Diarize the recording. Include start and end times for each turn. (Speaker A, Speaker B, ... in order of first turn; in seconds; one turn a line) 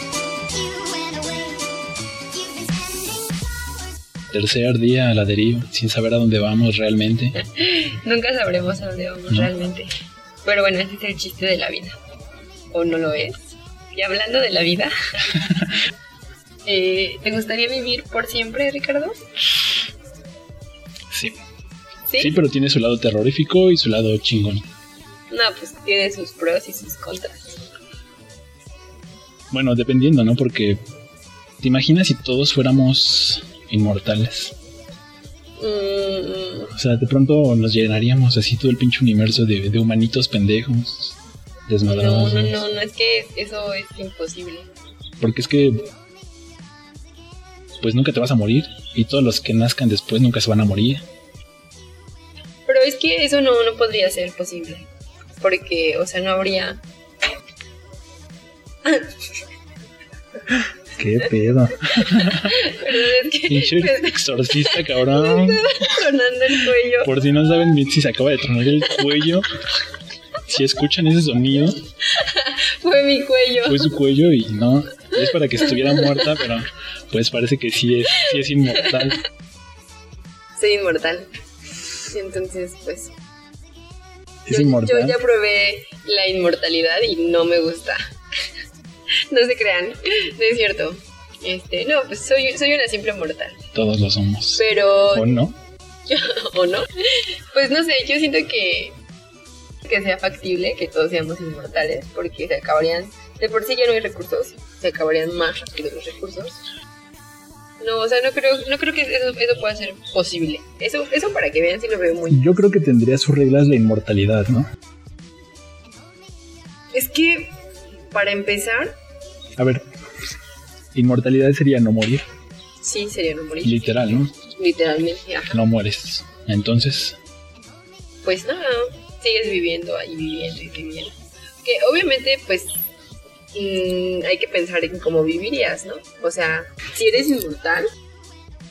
Speaker A: 0.4-1.7
Speaker A: 2.3-3.4
Speaker B: 4.3-7.3
Speaker C: 7.3-9.9
Speaker C: 10.4-12.0
Speaker C: 12.7-14.9
Speaker B: 15.3-15.7
Speaker C: 16.6-19.2
Speaker B: 21.1-21.4
Speaker C: 22.1-22.4
Speaker B: 22.2-24.7
Speaker C: 25.3-27.6
Speaker B: 29.5-30.8
Speaker B: 31.6-34.5
Speaker C: 35.6-36.7
Speaker B: 36.7-42.6
Speaker C: 41.8-44.7
Speaker B: 45.2-45.9
Speaker B: 47.8-51.0
Speaker C: 52.7-56.8
Speaker C: 58.8-59.1
Speaker B: 60.9-62.6
Speaker C: 62.0-67.2
Speaker B: 63.5-65.7
Speaker B: 67.0-69.5
Speaker B: 70.5-71.8
Speaker C: 72.0-74.0
Speaker B: 73.6-79.2
Speaker C: 75.8-76.3
Speaker C: 78.2-78.9
Speaker C: 80.6-81.3
Speaker C: 82.0-83.1
Speaker B: 84.5-85.2
Speaker C: 84.5-88.0
Speaker C: 89.3-93.6
Speaker B: 93.7-95.5
Speaker C: 94.5-95.4
Speaker C: 96.1-99.0
Speaker C: 99.8-106.6
Speaker C: 107.8-112.6
Speaker B: 112.3-114.7
Speaker C: 116.9-117.5
Speaker C: 118.1-118.9
Speaker B: 119.6-119.8
Speaker B: 120.9-122.2
Speaker C: 122.8-123.9
Speaker B: 123.6-124.3
Speaker C: 124.4-125.6
Speaker B: 125.5-127.2
Speaker C: 128.2-132.8
Speaker C: 133.5-137.9